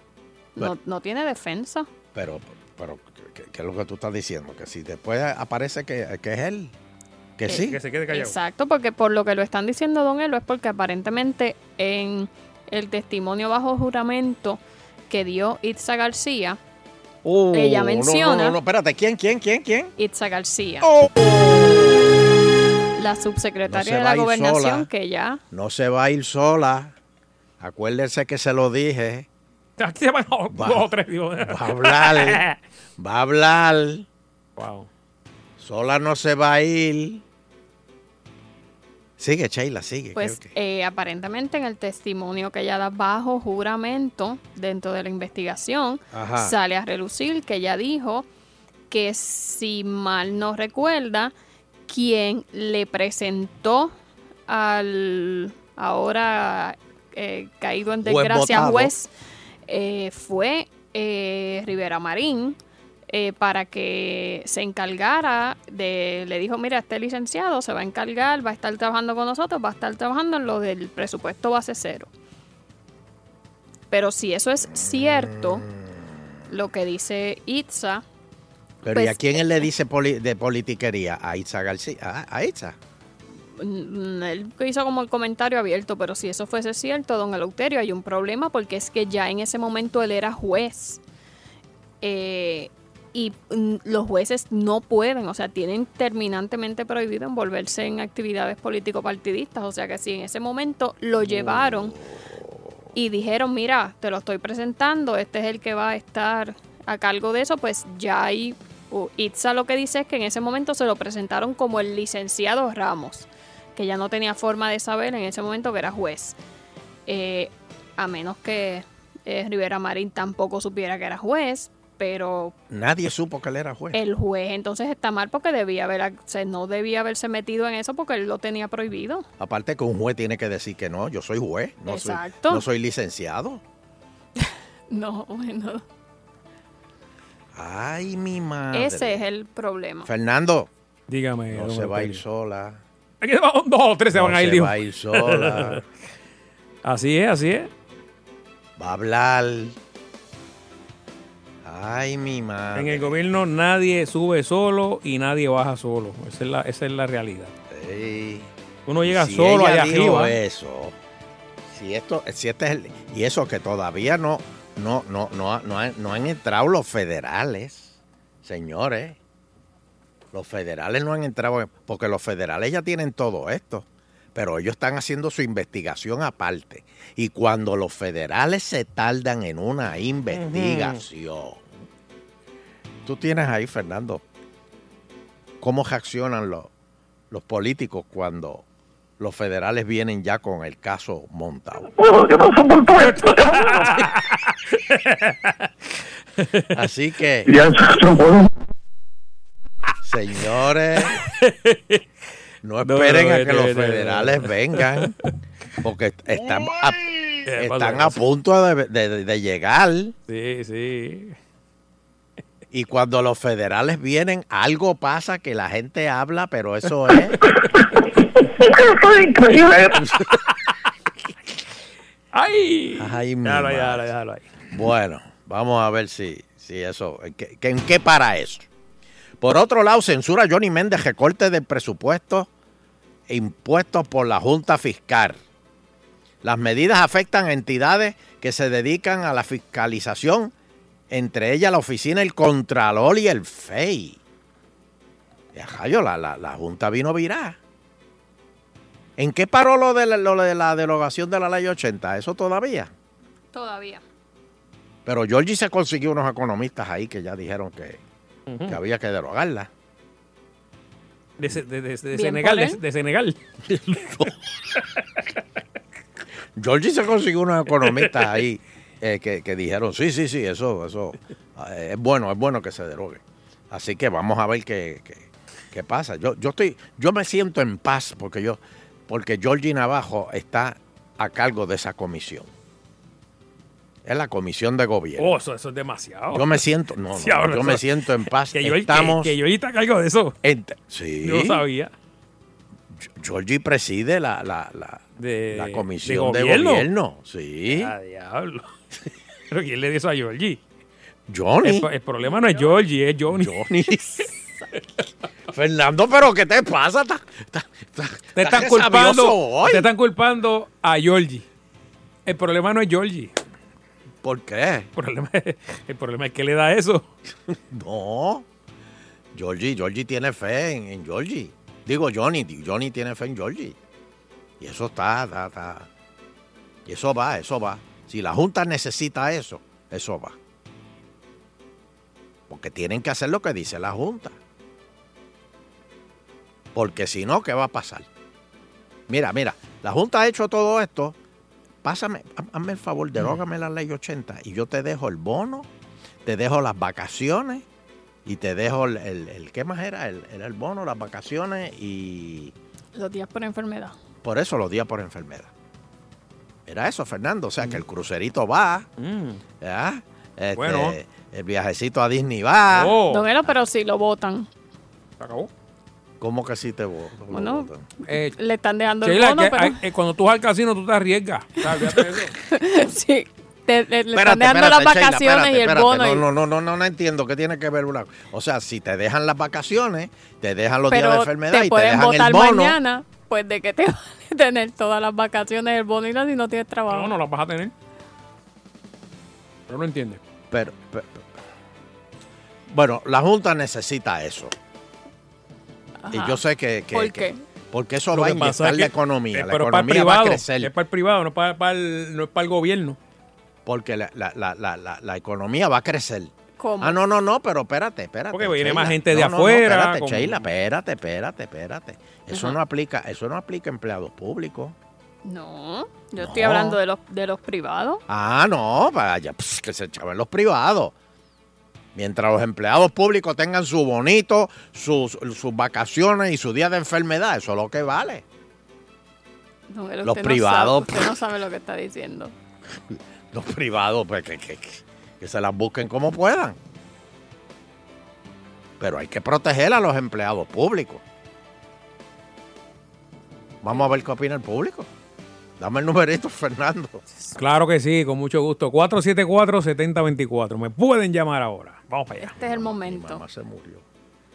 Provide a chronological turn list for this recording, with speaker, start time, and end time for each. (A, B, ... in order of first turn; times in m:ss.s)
0:00.6-0:01.9 A
0:02.1-0:06.7 B
0:07.4-0:07.8 B
0:07.5-0:16.6 A
0:07.5-0:08.4 C
0:17.2-0:19.9 B
0:17.5-0:18.6 A
0:20.0-0:20.9 A
0:20.8-0:21.9 B
0:23.0-0:25.4 A
0:23.6-0:24.9 B
0:25.5-0:26.9 B
0:27.6-0:29.3 B
0:29.8-0:32.6 C
0:30.5-0:30.9 B
0:31.4-0:32.4 B
0:33.0-0:34.0 B
0:34.6-0:34.9 C
0:35.6-0:37.2 B
0:39.2-0:40.5 B
0:40.1-0:48.3 A
0:46.1-0:46.5 B
0:48.9-0:51.3 A
0:51.9-0:53.9 A
0:54.5-0:59.1 A
0:58.0-0:58.9 B
0:59.7-1:02.6 A
1:03.1-1:12.1 A
1:13.9-1:15.6 A
1:14.8-1:15.7 B
1:16.5-1:18.0 A
1:18.8-1:22.8 B
1:18.9-1:19.4 A
1:23.6-1:31.0 A
1:32.0-1:42.0 A
1:41.3-1:42.0 B
1:42.9-1:56.4 A
1:57.1-2:02.5 A
2:02.7-2:04.0 B
2:03.9-2:09.2 A
2:09.4-2:13.6 B
2:11.9-2:12.6 A
2:14.4-2:15.8 A
2:17.5-2:19.2 B
2:18.7-2:20.1 A
2:20.0-2:20.7 B
2:21.1-2:22.2 C
2:21.5-2:22.8 B
2:23.2-2:25.8 C
2:24.1-2:25.8 B
2:26.8-2:27.7 C
2:28.8-2:29.8 B
2:31.6-2:33.2 B
2:32.7-2:37.5 C
2:37.7-2:38.5 B
2:38.9-2:40.3 C
2:39.0-2:41.0 B
2:41.7-2:49.2 B
2:50.3-3:01.6 B
3:00.3-3:01.0 C
3:03.0-3:04.2 B
3:05.6-3:06.7 B
3:07.3-3:08.6 B
3:09.2-3:11.9 B
3:12.1-3:13.3 D
3:13.0-3:15.6 C
3:16.4-3:16.7 C
3:16.8-3:17.5 B
3:17.6-3:18.4 D
3:20.0-3:21.2 B
3:21.1-3:22.0 C
3:22.6-3:25.1 B
3:22.8-3:25.3 C
3:25.8-3:27.0 B
3:27.4-3:28.2 C
3:27.5-3:30.1 B
3:30.3-3:31.4 C
3:32.7-3:37.4 B
3:42.3-3:44.5 C
3:43.0-3:44.1 B
3:44.7-3:48.6 B
3:49.4-3:52.5 B
3:53.3-3:55.4 B
3:56.4-4:00.5 B
4:01.1-4:04.2 B
4:05.5-4:07.6 B
4:09.2-4:12.9 B
4:13.5-4:14.0 A
4:15.0-4:18.0 B
4:18.5-4:18.8 C
4:18.6-4:19.7 B
4:21.4-4:24.2 C
4:22.1-4:22.8 A
4:26.6-4:42.5 B
4:27.8-4:28.2 C
4:44.0-4:45.4 B
4:45.2-4:46.6 C
4:46.3-4:49.4 B
4:47.1-4:47.8 C
4:48.5-4:50.4 C
4:50.4-4:51.6 B
4:51.2-4:51.9 C
4:52.9-4:57.9 B
4:55.2-4:56.9 C
4:57.7-4:58.7 C
4:59.5-5:00.6 C
5:01.3-5:01.9 B
5:01.6-5:03.5 C
5:02.3-5:02.6 A
5:03.3-5:04.2 B
5:05.5-5:09.9 B
5:08.3-5:11.4 C
5:12.2-5:13.3 C
5:14.2-5:14.9 B
5:15.0-5:17.0 C
5:17.7-5:18.4 B
5:19.3-5:23.8 B
5:24.6-5:25.9 B
5:26.8-5:30.4 B
5:32.5-5:34.4 B
5:36.7-5:38.1 B
5:39.1-5:41.2 B
5:41.8-5:45.7 B
5:46.2-5:47.6 B
5:48.2-5:52.5 B
5:52.9-5:53.9 A
5:54.2-5:55.5 B
5:56.7-5:58.9 B
5:59.0-5:59.4 C
5:59.6-6:03.0 B
6:00.6-6:01.0 C
6:02.7-6:03.2 C
6:03.1-6:04.5 A
6:05.2-6:05.5 C
6:06.2-6:07.8 B
6:07.3-6:07.7 A
6:08.1-6:08.3 C
6:08.3-6:09.8 A
6:09.0-6:12.3 C
6:11.8-6:16.2 A
6:14.1-6:22.8 B
6:20.9-6:27.1 A
6:26.9-6:27.7 C
6:29.7-6:30.2 C
6:30.5-6:31.3 B
6:32.7-6:34.5 B
6:36.0-6:36.4 A
6:36.1-6:40.7 B
6:36.9-6:37.4 A
6:38.1-6:43.0 C
6:43.6-6:54.8 B
6:46.6-6:47.0 A
6:48.3-6:50.4 C
6:52.3-6:52.6 A
6:55.2-6:58.0 A
6:56.2-6:56.8 B
6:58.1-7:00.9 B
7:01.9-7:08.2 B
7:09.7-7:12.3 A
7:10.0-7:11.1 B
7:12.9-7:16.6 B
7:18.8-7:21.0 B
7:23.6-7:24.9 B
7:25.6-7:27.0 B
7:27.4-7:32.3 C
7:32.2-7:33.2 A
7:32.4-7:33.8 B